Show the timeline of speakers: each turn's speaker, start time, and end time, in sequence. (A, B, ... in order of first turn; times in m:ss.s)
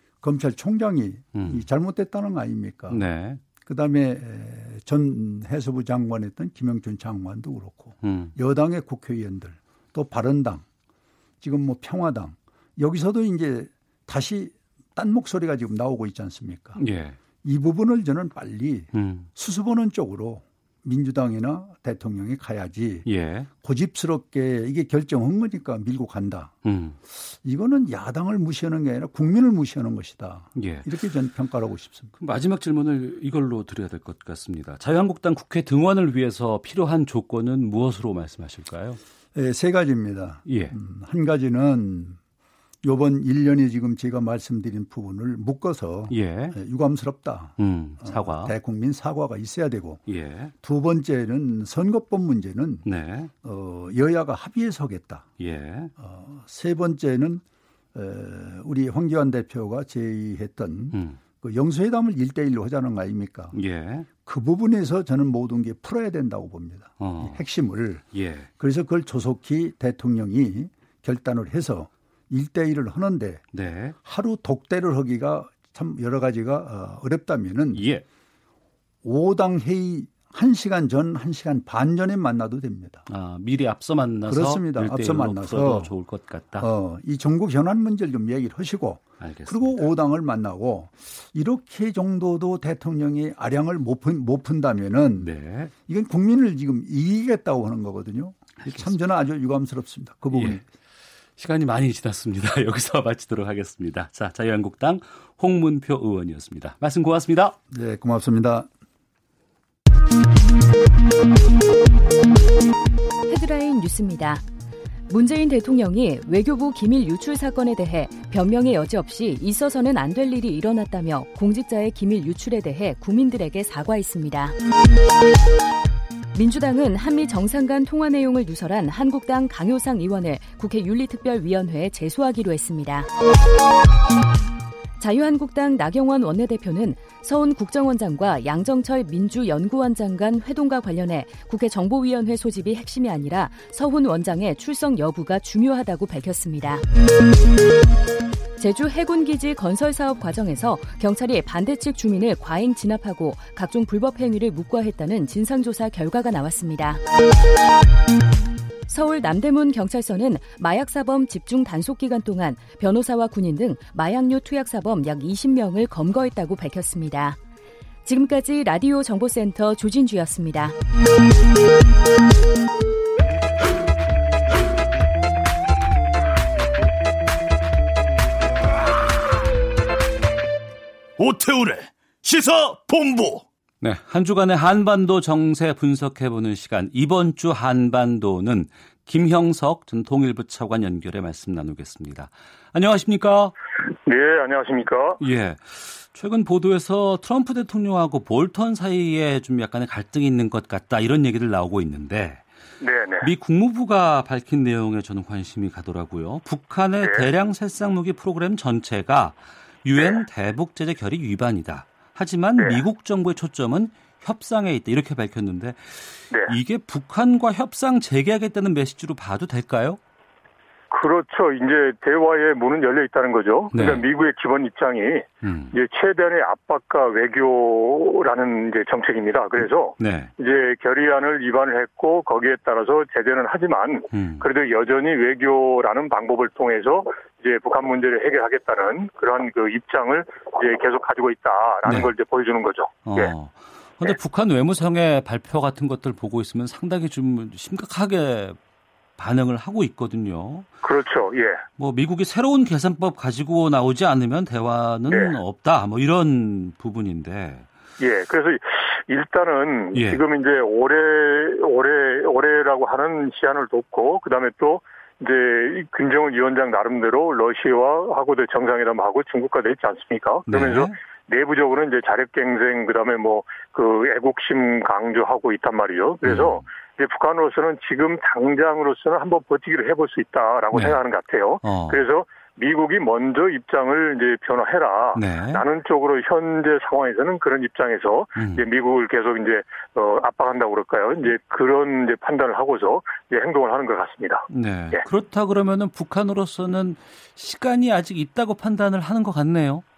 0:00.2-0:03.0 A
0:01.3-0:01.6 B
0:02.9-0:03.4 B
0:03.6-0:10.6 A
0:08.0-0:08.3 B
0:11.4-0:16.8 A
0:16.8-0:17.2 B
0:17.4-0:23.1 A
0:18.9-0:19.3 B
0:23.0-0:23.5 B
0:23.6-0:26.5 A
0:26.6-0:27.0 B
0:27.1-0:32.1 A
0:30.6-0:30.9 B
0:32.2-0:39.0 B
0:39.3-0:42.2 A
0:40.5-0:40.8 B
0:42.8-0:50.0 A
0:46.1-0:46.6 B
0:47.6-0:48.5 B
0:50.1-0:50.5 B
0:50.6-0:52.8 A
0:52.8-0:53.3 B
0:53.4-0:55.3 A
0:55.4-0:55.9 B
0:56.0-0:57.4 A
0:57.9-1:03.6 A
1:00.9-1:01.2 B
1:03.5-1:04.1 B
1:04.2-1:08.0 A
1:07.0-1:07.4 B
1:08.1-1:08.5 B
1:08.6-1:13.4 A
1:13.5-1:14.0 B
1:14.0-1:17.8 A
1:17.7-1:18.0 B
1:19.0-1:23.0 A
1:23.1-1:26.7 B
1:24.2-1:25.9 A
1:26.6-1:35.3 A
1:29.2-1:29.8 B
1:35.2-1:35.7 B
1:35.8-1:40.6 A
1:38.6-1:38.9 B
1:40.3-1:40.6 B
1:41.4-1:47.6 B
1:47.7-1:48.7 A
1:53.3-1:54.4 C
1:55.1-2:04.5 C
2:06.3-2:13.1 C
2:15.0-2:26.8 C
2:28.6-2:37.0 C
2:38.9-2:47.4 C
2:48.0-2:50.7 C
3:01.2-3:03.4 D
3:03.8-3:13.5 B
3:14.0-3:15.2 E
3:15.2-3:22.4 B
3:22.8-3:23.3 E
3:23.2-3:40.0 B
3:40.9-4:03.3 E
3:43.7-3:44.0 B
3:45.4-3:45.7 B
3:50.0-3:50.3 B
3:54.1-3:54.5 B
4:01.8-4:02.1 B
4:03.0-4:08.6 B
4:09.2-4:10.7 B
4:10.8-4:11.6 E
4:11.8-4:17.7 B
4:15.1-4:15.3 E
4:18.0-4:55.0 E
4:19.9-4:20.2 B
4:30.5-4:30.9 B
4:36.2-4:36.6 B
4:40.7-4:41.0 B
4:41.6-4:42.0 B
4:45.1-4:45.6 B
4:48.4-4:48.6 B
4:54.5-4:59.8 B